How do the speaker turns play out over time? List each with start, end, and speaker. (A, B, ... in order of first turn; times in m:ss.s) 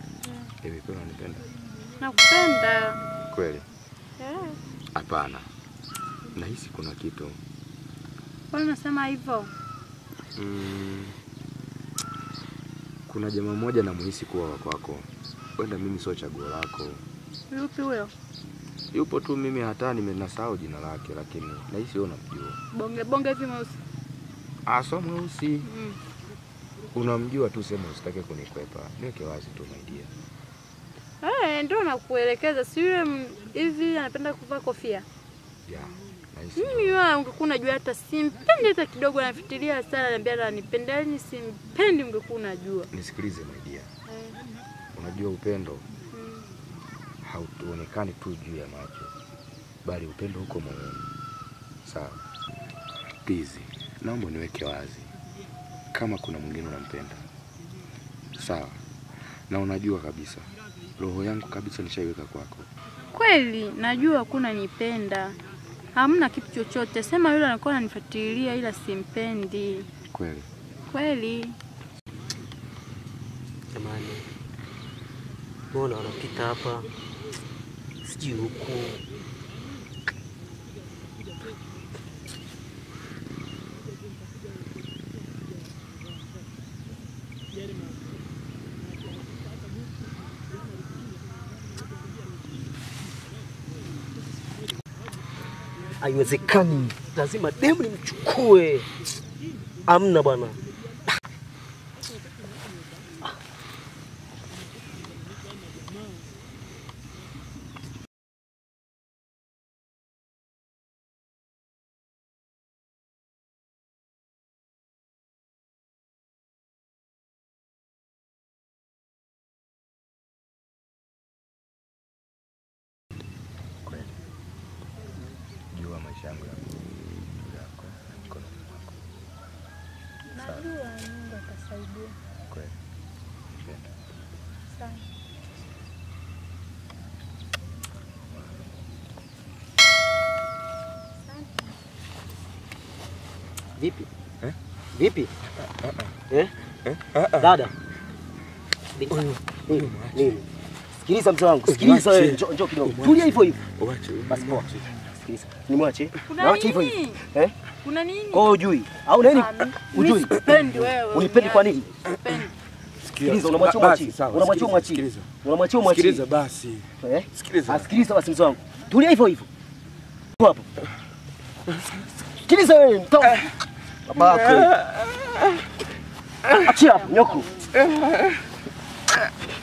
0:00.6-0:01.5 A
0:02.0-0:03.0 B
0:03.3-0:03.7 A
0:04.2-0:04.6 B
0:04.9-0:05.5 A
0:06.3-0:07.4 A
0:08.5-0:09.5 B
0:10.4-0:11.2 A
0:13.1-0:17.0 A
0:17.5-0:18.1 B
0:18.9-0:22.6 A
0:22.7-0:23.8 B
0:24.7-0:25.7 A
0:25.6-0:26.0 B
0:26.9-0:30.1 A
0:31.2-0:35.1 B
0:35.7-0:37.0 A
0:36.6-0:42.9 B
0:42.9-0:43.9 A
0:44.1-0:44.4 B
0:44.9-0:45.9 A
0:46.1-0:46.5 B
0:47.2-0:49.1 A
0:49.8-0:51.1 A
0:51.8-0:52.2 A
0:53.2-0:55.1 A
0:55.9-0:57.2 A
0:58.4-1:02.7 A
1:03.1-1:05.4 B
1:06.0-1:09.9 B
1:10.1-1:10.5 A
1:10.9-1:11.6 B
1:13.7-1:14.2 C
1:15.7-1:16.9 C
1:18.0-1:19.0 C
1:36.0-1:38.9 C
1:39.9-1:40.6 C
2:03.8-2:04.2 A
2:05.7-2:08.9 A
2:10.3-2:12.2 B
2:10.4-2:10.7 A
2:12.5-2:12.8 A
2:13.6-2:13.9 A
2:14.7-2:15.1 B
2:21.3-2:21.7 B
2:23.8-2:24.1 C
2:24.9-2:25.3 C
2:26.8-2:27.6 A
2:27.4-2:27.7 C
2:29.0-2:30.4 C
2:29.7-2:30.5 A
2:31.0-2:33.6 C
2:31.7-2:35.0 A
2:34.3-2:34.7 C
2:35.2-2:37.5 C
2:36.3-2:37.2 B
2:37.8-2:38.5 B
2:38.3-2:40.4 C
2:39.3-2:42.5 B
2:41.1-2:41.8 C
2:43.0-2:45.3 A
2:43.2-2:46.3 C
2:45.8-2:47.9 A
2:47.0-2:49.5 C
2:50.4-2:50.6 C
2:52.4-2:53.4 C
2:54.1-2:54.7 C
2:54.2-2:55.0 A
2:56.6-2:57.5 C